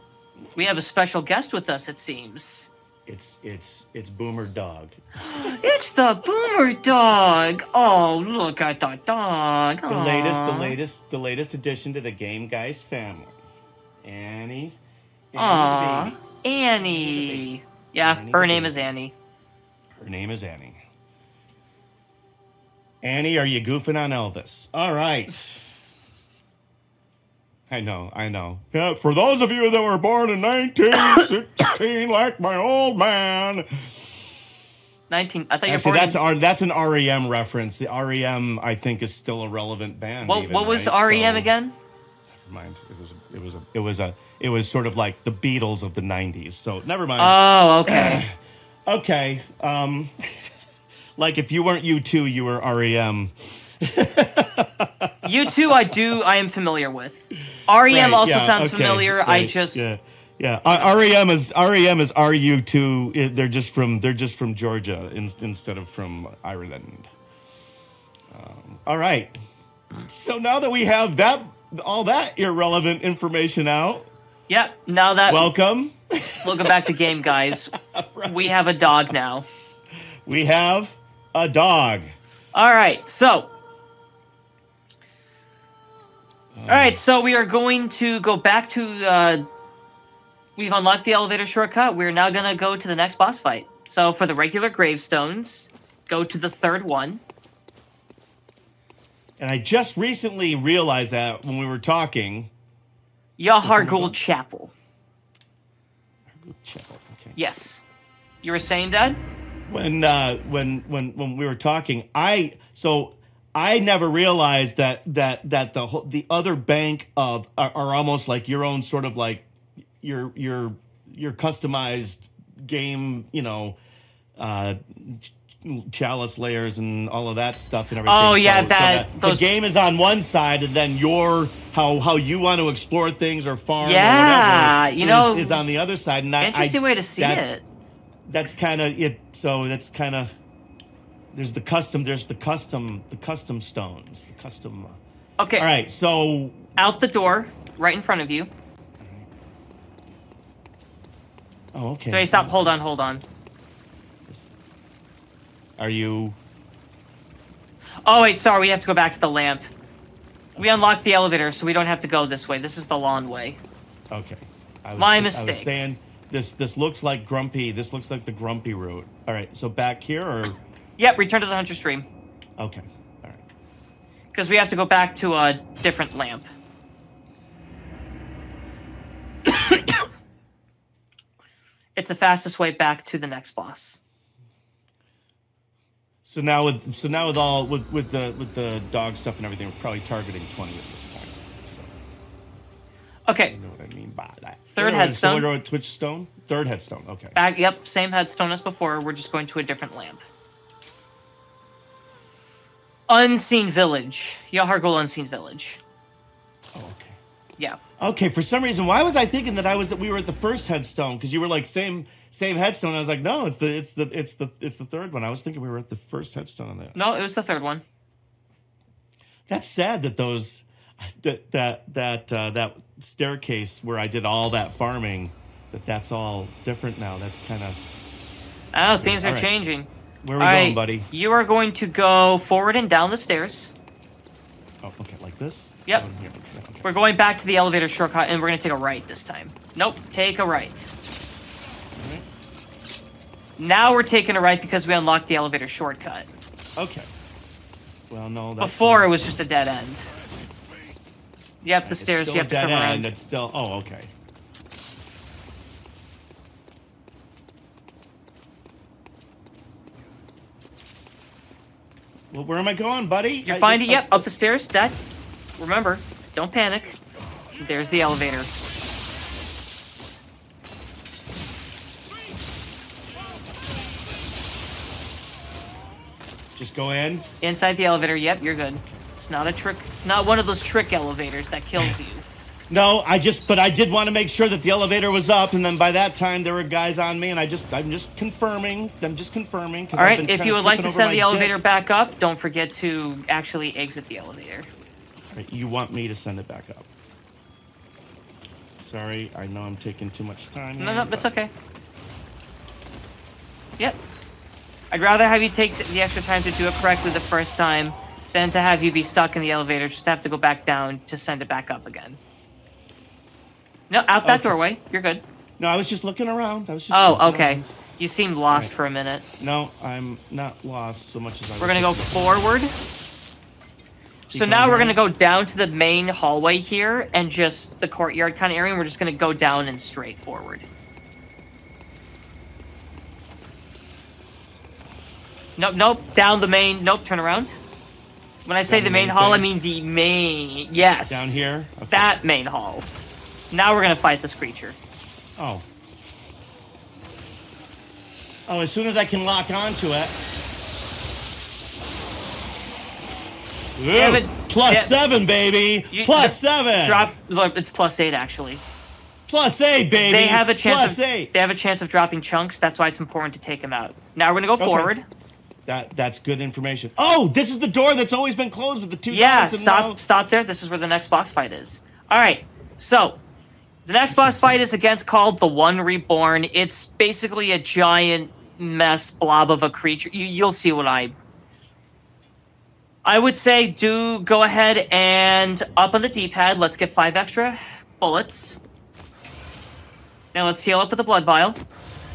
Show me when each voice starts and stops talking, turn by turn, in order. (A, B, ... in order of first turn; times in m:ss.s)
0:00.4-0:00.7 A
0:00.6-0:02.7 B
0:03.0-0:05.6 A
0:05.4-0:10.8 B
0:09.9-0:13.4 A
0:14.0-0:14.8 A
0:15.3-0:16.2 A
0:15.4-0:19.1 B
0:16.8-0:17.5 A
0:18.0-0:18.8 A
0:20.0-0:20.8 A
0:23.0-0:25.7 A
0:27.7-0:34.2 A
0:35.1-0:36.2 B
0:35.7-0:41.5 A
0:40.2-0:41.7 B
0:42.3-0:50.4 A
0:47.2-0:48.2 B
0:51.2-0:55.5 A
0:55.2-0:59.9 B
0:57.9-1:07.1 A
1:08.3-1:09.3 A
1:10.0-1:14.1 A
1:14.5-1:15.5 B
1:15.3-1:19.1 A
1:16.4-1:19.5 B
1:20.2-1:22.1 A
1:22.5-1:23.5 B
1:26.5-1:27.0 A
1:26.7-1:29.4 B
1:30.6-1:37.2 B
1:39.4-1:42.5 A
1:43.4-1:44.7 B
1:43.6-1:44.2 A
1:46.3-1:47.4 A
1:47.4-1:47.8 B
1:48.4-1:49.2 B
1:49.7-1:59.5 A
2:00.0-2:03.8 A
2:04.4-2:17.4 A
2:08.1-2:09.5 B
2:13.8-2:15.6 B
2:16.4-2:17.6 B
2:18.3-2:20.3 A
2:21.3-2:25.0 A
2:25.4-2:25.7 B
2:25.6-2:26.7 A
2:26.8-2:28.5 B
2:29.0-2:29.3 A
2:31.7-2:32.8 A
2:32.1-2:33.2 B
2:34.3-2:34.5 A
2:35.8-2:36.4 A
2:38.1-2:39.7 B
2:40.6-2:40.9 A
2:40.6-2:43.6 B
2:44.1-2:50.6 A
2:45.0-2:45.7 B
2:51.0-2:52.1 B
2:52.6-2:53.4 A
2:54.3-2:56.5 B
3:01.9-3:04.0 B
3:06.2-3:11.9 A
3:13.3-3:13.5 B
3:13.5-3:17.4 A
3:14.7-3:15.5 B
3:17.3-3:20.2 B
3:23.1-3:25.8 B
3:26.7-3:27.2 A
3:28.0-3:37.0 A
3:36.9-3:37.8 B
3:39.5-3:47.8 A
3:48.7-3:49.9 B
3:48.9-3:49.5 A
3:50.2-3:51.1 A
3:50.4-3:53.7 B
3:54.8-3:56.9 A
3:56.8-4:00.9 B
4:01.9-4:02.3 A
4:03.6-4:06.3 B
4:06.8-4:07.1 A
4:08.1-4:09.1 A
4:08.6-4:10.1 B
4:11.6-4:13.1 B
4:11.8-4:14.1 A
4:22.3-4:24.3 A
4:23.4-4:25.0 B
4:25.6-4:27.0 B
4:27.6-4:28.5 B
4:36.6-4:37.3 A
4:37.4-4:42.2 B
4:42.7-4:51.6 A
4:49.9-4:54.7 B
4:55.3-4:56.9 A
4:58.8-5:01.3 A
5:00.8-5:01.5 B
5:04.9-5:12.2 B
5:13.9-5:15.2 B
5:14.2-5:14.6 A
5:15.6-5:17.7 A
5:16.9-5:19.2 B
5:19.4-5:22.4 A
5:21.6-5:22.8 B
5:24.3-5:30.7 B
5:24.3-5:25.0 A
5:35.6-5:37.6 B
5:38.4-5:41.4 B
5:38.7-5:39.6 A
5:41.1-5:42.2 A
5:41.9-5:42.9 B
5:43.5-5:44.8 B
5:45.4-5:45.6 A
5:48.5-5:50.2 A
5:53.8-5:57.1 A
5:53.9-5:55.0 B
5:55.9-5:58.6 B
5:59.3-6:01.3 A
5:59.9-6:05.0 B
6:04.6-6:04.9 A
6:05.7-6:10.0 A
6:09.1-6:13.2 B
6:13.8-6:21.1 B
6:14.1-6:14.6 A
6:23.0-6:28.6 B
6:30.3-6:31.6 B